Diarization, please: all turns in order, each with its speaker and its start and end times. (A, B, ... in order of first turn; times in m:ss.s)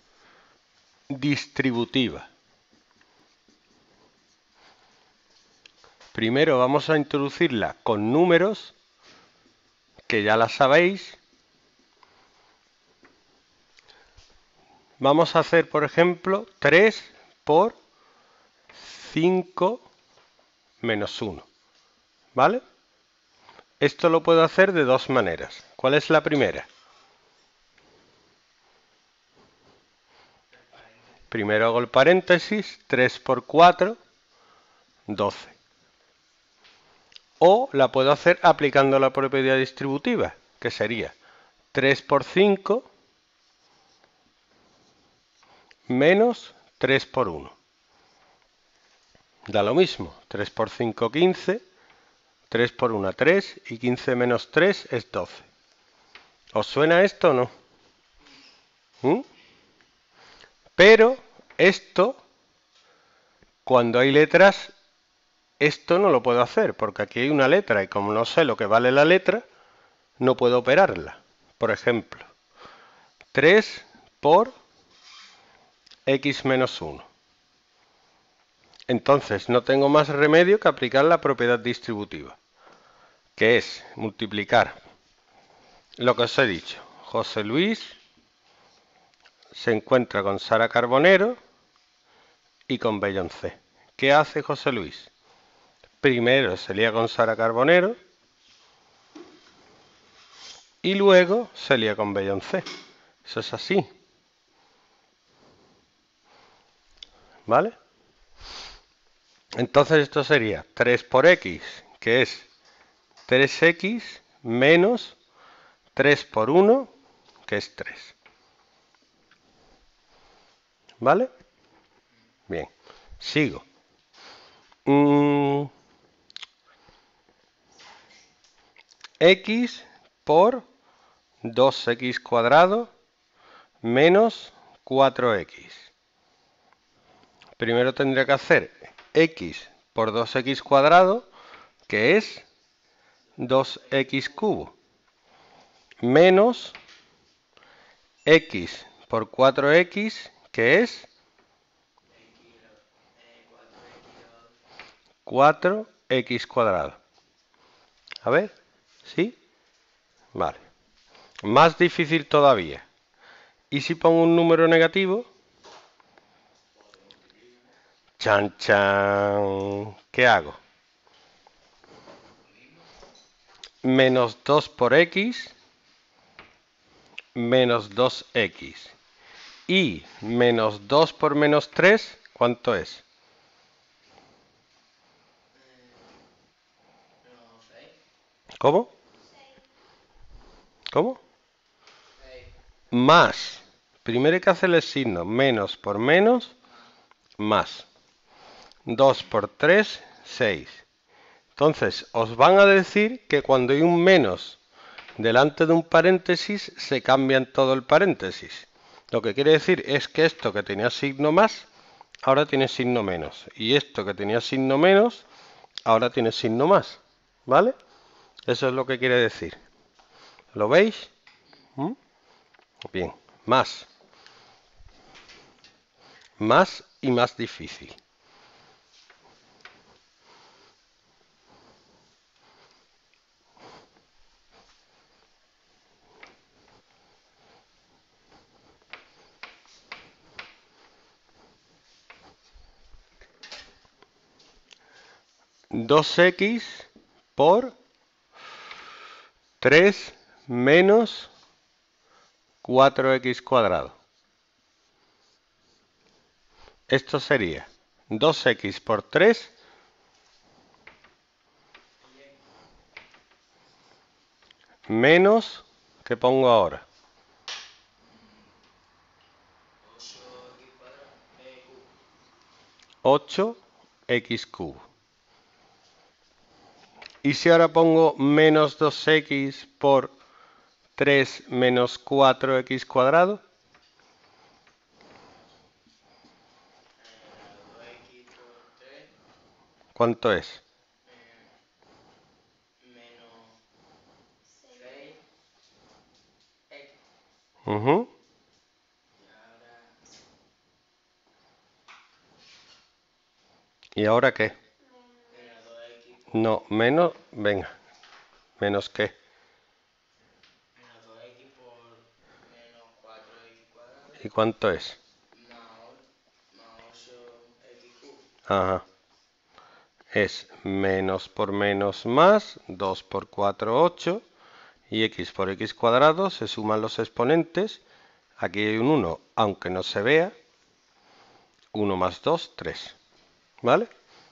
0:01.1-0:02.3 A
0:06.1-0:08.7 A
0:10.1-0:11.2 A
0:15.0-0:17.8 A
0:18.8-0:19.9 A
0:20.8-0:21.5 A
0:22.4-0:22.6 A
0:23.8-0:26.7 A
0:31.3-0:34.0 A
0:35.1-0:35.6 A
0:37.4-0:41.2 A
0:41.7-0:42.9 A
0:45.9-0:47.6 A
0:49.5-0:51.6 A
0:52.5-0:55.5 A
0:56.6-0:57.5 A
1:00.8-1:02.2 A
1:03.7-1:04.7 A
1:05.6-1:09.4 A
1:10.2-1:12.3 A
1:13.3-1:14.5 A
1:16.1-1:17.1 A
1:18.9-1:22.4 A
1:23.4-1:24.8 A
1:26.0-1:28.0 A
1:29.5-1:31.4 A
1:32.7-1:35.1 A
1:36.0-1:38.0 A
1:40.8-1:42.6 A
1:43.3-1:43.9 A
1:47.5-1:47.8 A
1:49.6-1:52.5 A
1:53.3-1:55.2 A
1:56.0-1:56.9 A
1:57.5-1:58.1 A
2:01.0-2:01.3 A
2:02.5-2:03.6 A
2:04.9-2:05.7 A
2:09.2-2:10.6 A
2:11.4-2:12.9 A
2:13.8-2:15.9 A
2:17.6-2:21.3 A
2:21.9-2:22.5 A
2:23.4-2:24.7 A
2:26.0-2:26.8 A
2:28.3-2:31.1 A
2:32.2-2:34.5 B
2:35.3-2:37.0 A
2:38.2-2:38.5 A
2:39.0-2:39.4 A
2:40.4-2:40.6 A
2:41.4-2:42.8 A
2:43.7-2:45.3 A
2:48.2-2:50.6 A
2:53.8-2:55.5 A
2:57.4-2:58.9 A
2:59.7-3:03.0 A
3:05.6-3:06.0 B
3:07.2-3:08.0 B
3:08.6-3:08.9 A
3:10.9-3:11.2 A
3:12.2-3:12.5 B
3:12.9-3:16.6 A
3:17.4-3:17.9 A
3:18.9-3:20.8 A
3:21.6-3:24.6 A
3:25.2-3:31.6 A
3:32.2-3:35.2 A
3:35.9-3:37.7 A
3:38.5-3:39.6 A
3:40.5-3:41.1 A
3:42.9-3:43.9 A
3:46.4-3:48.0 A
4:05.7-4:07.8 A
4:09.6-4:11.3 A
4:12.6-4:14.0 A
4:16.9-4:19.5 A
4:24.9-4:26.8 A
4:29.8-4:31.9 B
4:33.0-4:34.8 A
4:37.2-4:40.1 A
4:41.0-4:43.4 A
4:47.0-4:49.1 B
4:50.0-4:50.6 A
4:51.1-4:51.5 B
4:52.8-4:53.6 B
4:54.6-4:55.2 B
4:57.7-4:58.1 A
4:59.2-5:00.0 B
5:04.0-5:04.6 A
5:05.2-5:06.3 B
5:06.3-5:07.7 A
5:08.6-5:09.1 A
5:10.8-5:14.2 B
5:14.2-5:15.0 A
5:15.3-5:18.3 B
5:18.5-5:18.8 A
5:20.1-5:24.2 A
5:24.9-5:27.8 A
5:28.4-5:30.3 A
5:31.7-5:33.0 A
5:33.6-5:33.9 A